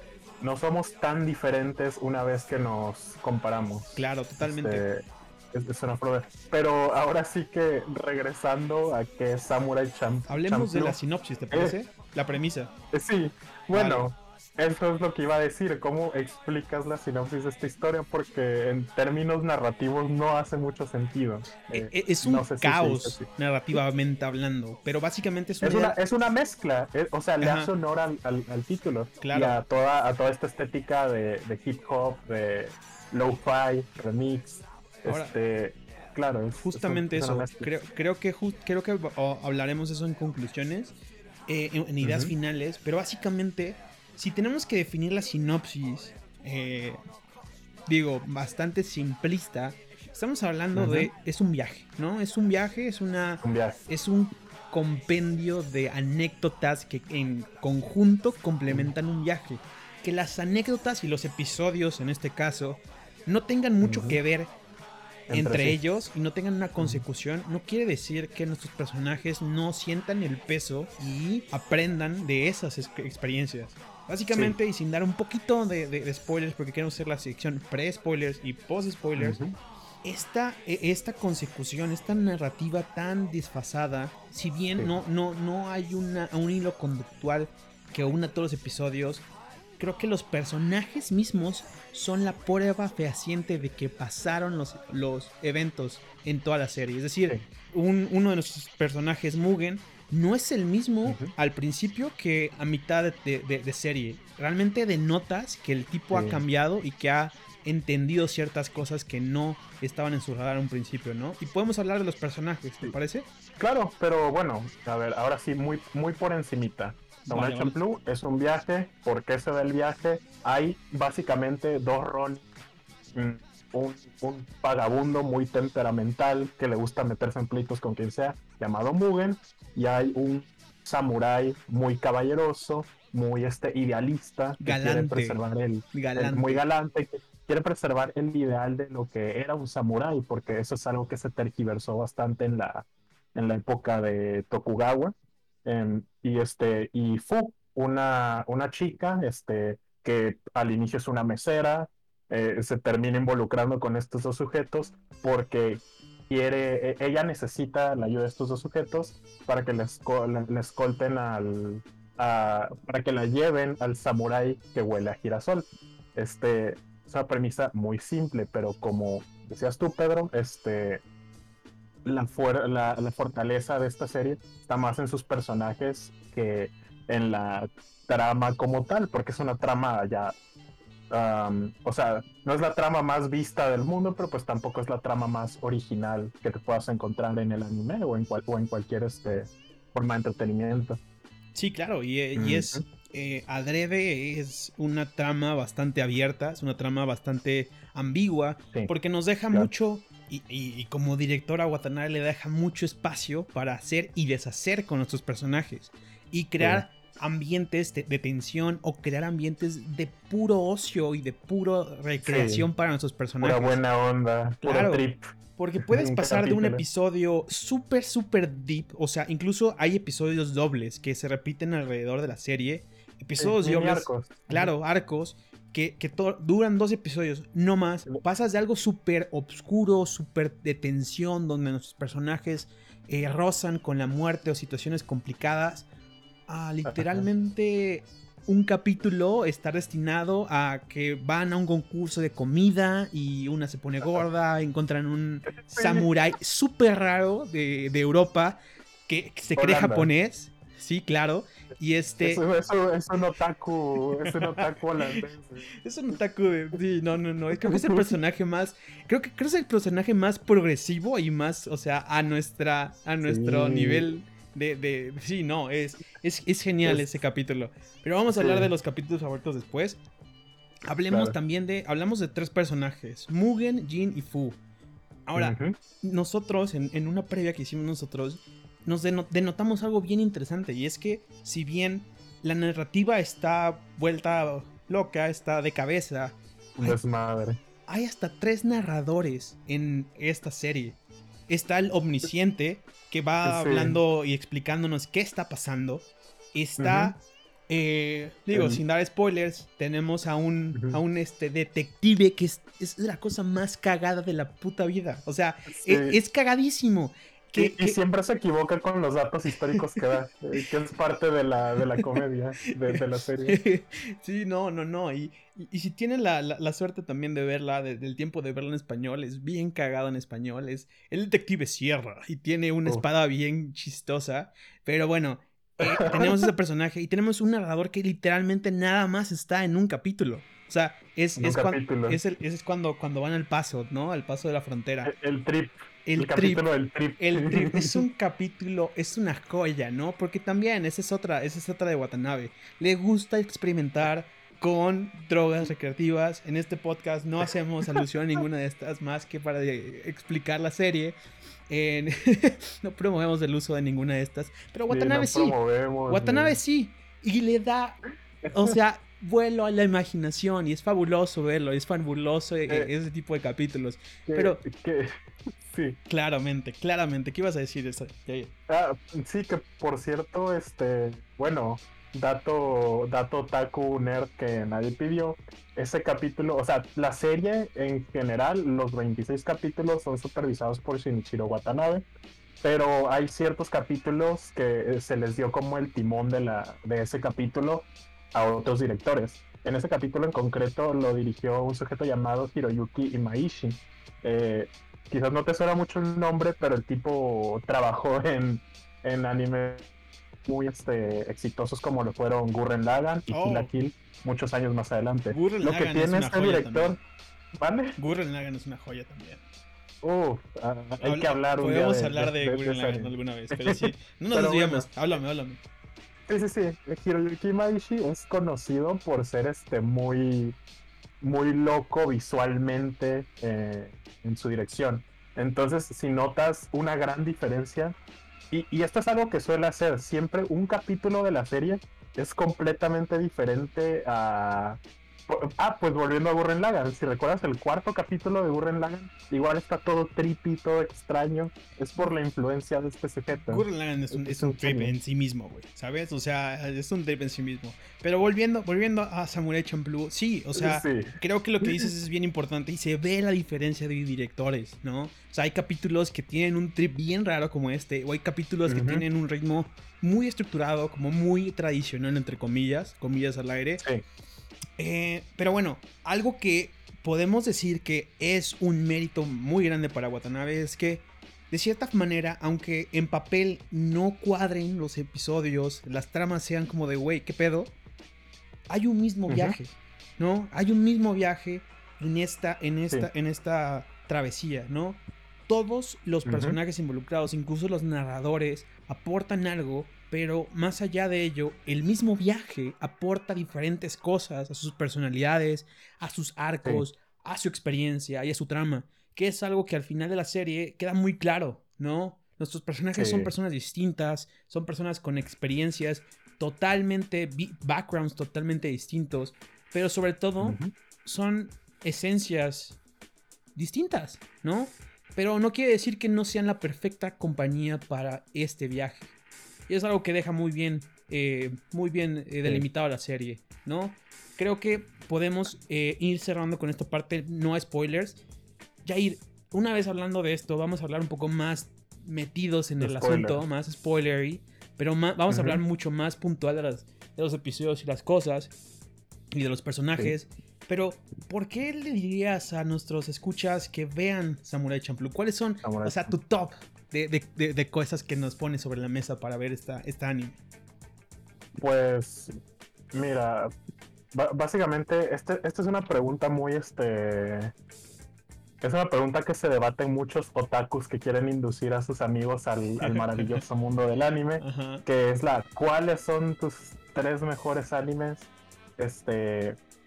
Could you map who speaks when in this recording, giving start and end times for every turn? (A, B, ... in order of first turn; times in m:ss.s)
0:00.4-0:11.0 A
0:04.0-0:04.8 B
0:10.3-0:12.7 B
0:12.9-0:23.3 A
0:13.7-0:14.0 B
0:21.7-0:26.0 B
0:25.6-0:37.7 A
0:27.4-0:27.7 B
0:29.2-0:29.6 B
0:35.0-0:35.3 B
0:36.6-0:40.9 B
0:41.5-0:47.0 B
0:42.0-0:42.3 A
0:47.9-1:04.5 B
0:50.7-0:51.1 A
0:53.4-0:53.8 A
0:58.6-0:58.9 A
1:03.8-1:04.2 A
1:05.3-1:05.8 A
1:05.3-1:19.4 B
1:06.8-1:07.0 A
1:19.2-1:19.5 A
1:20.0-1:29.2 B
1:29.8-1:53.3 B
1:41.0-1:41.3 A
1:46.1-1:46.4 A
1:53.6-2:02.4 A
1:57.2-1:57.8 B
2:03.1-2:51.0 A
2:14.6-2:15.4 B
2:15.9-2:16.6 B
2:52.0-3:00.4 A
3:01.1-3:11.0 A
3:11.5-3:33.8 B
3:12.4-3:12.8 A
3:32.2-3:32.7 A
3:33.4-3:35.2 A
3:34.6-3:35.0 B
3:35.6-3:55.9 B
3:35.8-3:36.8 A
3:43.4-3:44.7 A
3:56.5-4:08.6 B
3:56.9-3:57.2 A
4:05.7-4:06.1 A
4:09.1-4:12.4 B
4:09.6-4:10.1 A
4:12.2-4:15.7 A
4:14.2-4:15.2 B
4:15.7-4:30.0 B
4:17.5-4:18.2 A
4:23.2-4:24.1 A
4:28.3-4:28.7 A
4:30.8-4:34.6 B
4:31.1-4:31.4 A
4:35.3-4:47.0 B
4:35.4-4:35.8 A
4:46.8-4:47.6 A
4:47.9-4:51.0 B
4:51.5-5:08.0 B
4:53.4-4:54.0 A
4:56.8-4:57.1 A
4:58.5-4:58.8 A
5:00.7-5:01.0 A
5:05.7-5:06.2 A
5:07.6-5:13.6 A
5:12.9-5:35.1 B
5:25.8-5:26.5 A
5:31.4-5:32.2 A
5:35.0-5:38.0 A
5:36.0-5:36.6 B
5:37.2-5:51.2 B
5:51.7-5:55.6 B
5:54.9-5:56.6 A
5:56.1-6:04.6 B
5:58.4-5:58.7 A
6:04.2-6:05.1 A
6:05.6-6:06.0 A
6:06.1-6:08.5 B
6:08.7-6:22.0 A
6:22.6-6:39.8 A
6:40.4-6:47.0 A
6:43.3-6:43.7 B
6:45.3-6:47.0 B
6:47.6-6:48.0 A
6:48.0-6:49.4 B
6:50.0-6:54.9 A
6:51.0-6:55.6 B
6:56.3-7:00.6 A
7:01.2-7:08.0 A
7:08.5-7:25.0 A
7:23.3-7:43.8 B
7:30.6-7:31.9 A
7:38.7-7:39.0 A
7:44.8-7:57.7 B
7:58.7-8:32.8 B
7:59.3-7:59.6 A
8:06.2-8:06.6 A
8:23.0-8:23.3 A
8:30.4-8:30.7 A
8:33.5-8:39.1 B
8:39.7-8:48.2 B
8:48.8-8:58.5 B
8:52.8-8:53.4 A
8:55.3-8:55.6 A
8:59.3-9:10.4 B
9:05.6-9:06.2 A
9:11.6-9:12.3 A
9:12.9-9:13.5 A
9:14.1-9:17.5 A
9:18.6-9:29.6 A
9:22.8-9:23.4 B
9:24.4-9:24.8 B